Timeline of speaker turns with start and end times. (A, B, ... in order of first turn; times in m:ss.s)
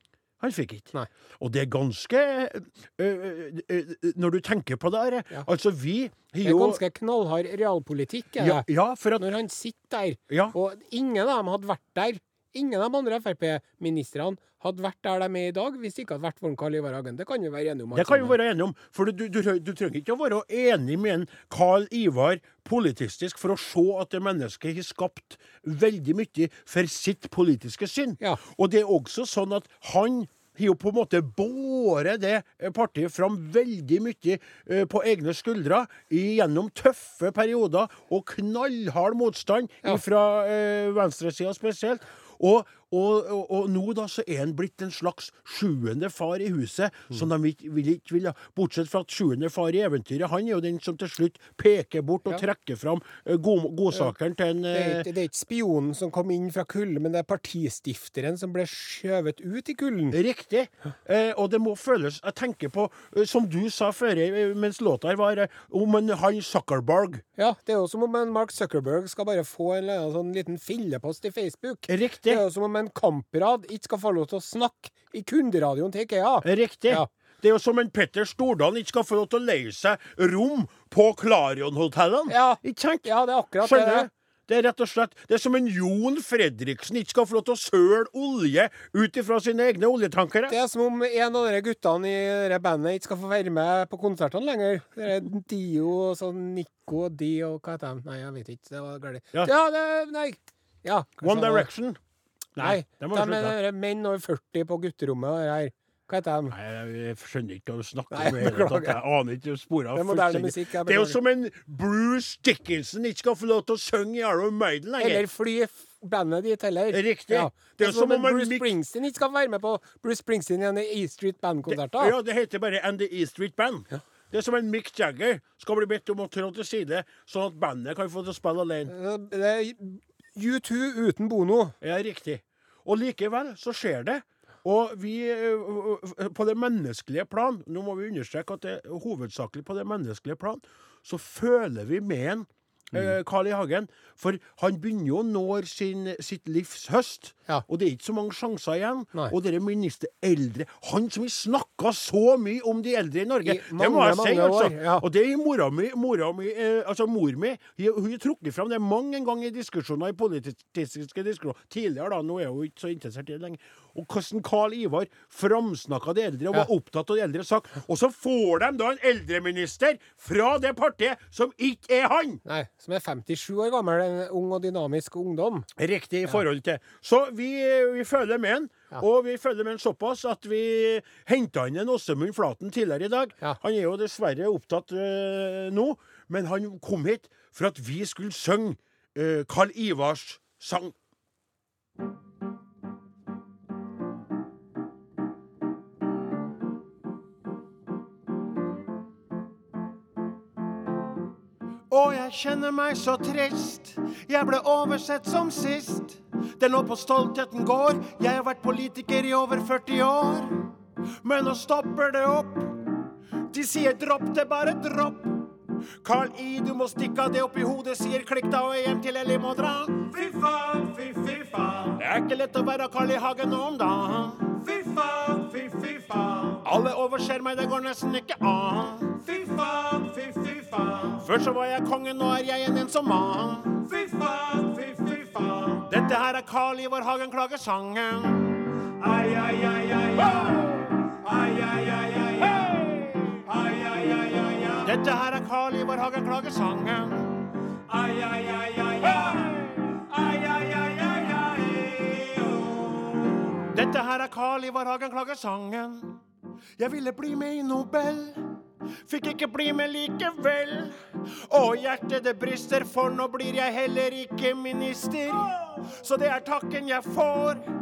0:00.4-0:06.8 A
0:06.4-0:08.6 B
0:08.4-0:09.3 A
0:09.2-0:18.4 B
0:10.3-0:10.5 A
0:17.9-0:55.1 A
0:54.7-1:00.2 B
1:00.1-1:07.2 A
1:07.4-1:17.1 B
1:11.9-1:12.4 A
1:16.4-1:23.1 A
1:22.3-1:24.1 B
1:23.6-1:30.5 A
1:30.5-1:41.7 B
1:41.2-1:42.0 A
1:42.6-1:43.6 A
1:42.6-1:46.5 B
1:46.5-1:55.3 A
1:48.1-1:49.0 B
1:49.9-1:51.2 B
1:55.0-2:02.1 B
1:56.9-1:58.7 A
2:01.7-2:08.9 A
2:08.9-2:11.8 B
2:11.8-2:52.4 A
2:33.4-2:35.0 B
2:52.4-2:55.7 B
2:55.8-3:11.0 A
3:21.9-3:30.7 A
3:31.2-3:32.8 A
3:33.5-3:35.4 A
3:36.0-3:40.1 A
3:40.0-3:42.0 C
3:42.0-3:44.6 A
3:44.5-3:46.6 C
3:46.6-3:49.2 A
3:49.2-3:51.2 C
3:51.2-3:53.8 A
3:53.8-3:55.9 C
3:55.8-3:58.7 A
3:58.9-4:05.0 C
4:04.8-4:07.5 A
4:07.9-4:13.5 C
4:09.3-4:09.7 A
4:13.7-4:16.2 A
4:16.8-4:18.5 A
4:19.0-4:27.6 A